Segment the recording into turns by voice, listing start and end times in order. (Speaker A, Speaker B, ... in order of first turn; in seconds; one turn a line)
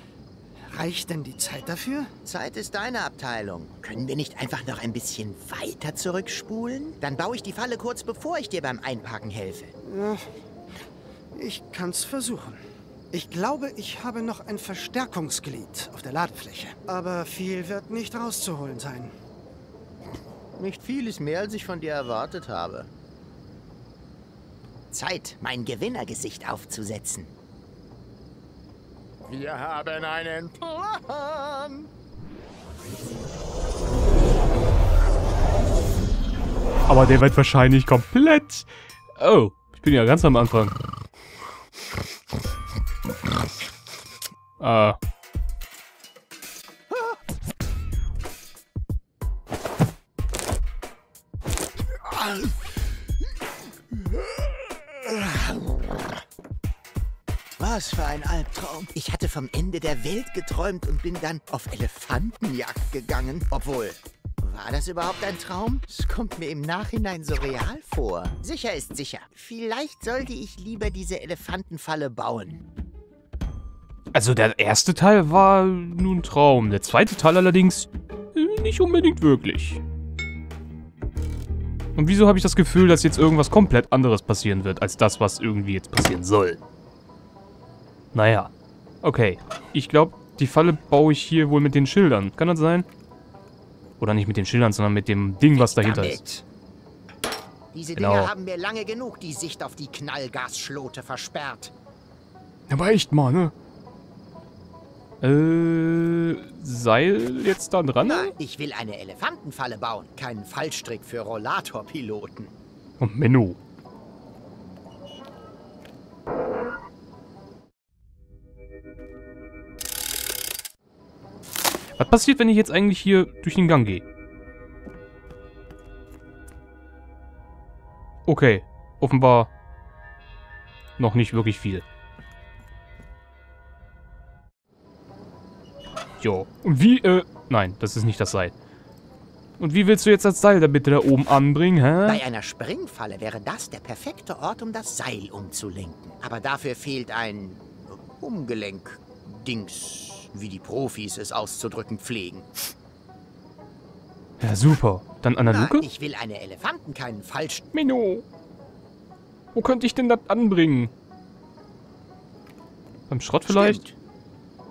Speaker A: 0.7-2.1
Speaker B: 2.2-9.7
Speaker A: 9.8-10.2
Speaker A: 11.3-12.6
Speaker A: 13.1-19.1
Speaker B: 20.6-22.9
Speaker B: 24.9-27.3
Speaker B: 29.3-31.9
Speaker C: 36.9-38.7
Speaker C: 39.2-40.7
Speaker C: 44.6-45.0
Speaker B: 52.0-52.6
Speaker B: 54.0-56.2
Speaker B: 57.6-72.6
Speaker C: 74.1-79.8
Speaker C: 82.0-86.6
Speaker C: 88.1-88.5
Speaker C: 89.0-92.9
Speaker C: 94.0-96.2
Speaker B: 95.5-96.4
Speaker B: 97.7-101.7
Speaker C: 98.0-98.3
Speaker C: 102.7-103.5
Speaker C: 105.2-108.3
Speaker B: 108.0-112.5
Speaker C: 113.0-113.6
Speaker C: 122.0-124.0
Speaker C: 128.3-129.5
Speaker C: 131.0-131.8
Speaker C: 136.2-138.5
Speaker C: 139.6-142.2
Speaker B: 142.1-152.7
Speaker C: 154.4-155.9
Speaker B: 155.4-157.7
Speaker C: 157.7-158.2
Speaker C: 159.6-160.9
Speaker C: 163.1-163.8
Speaker B: 163.5-163.9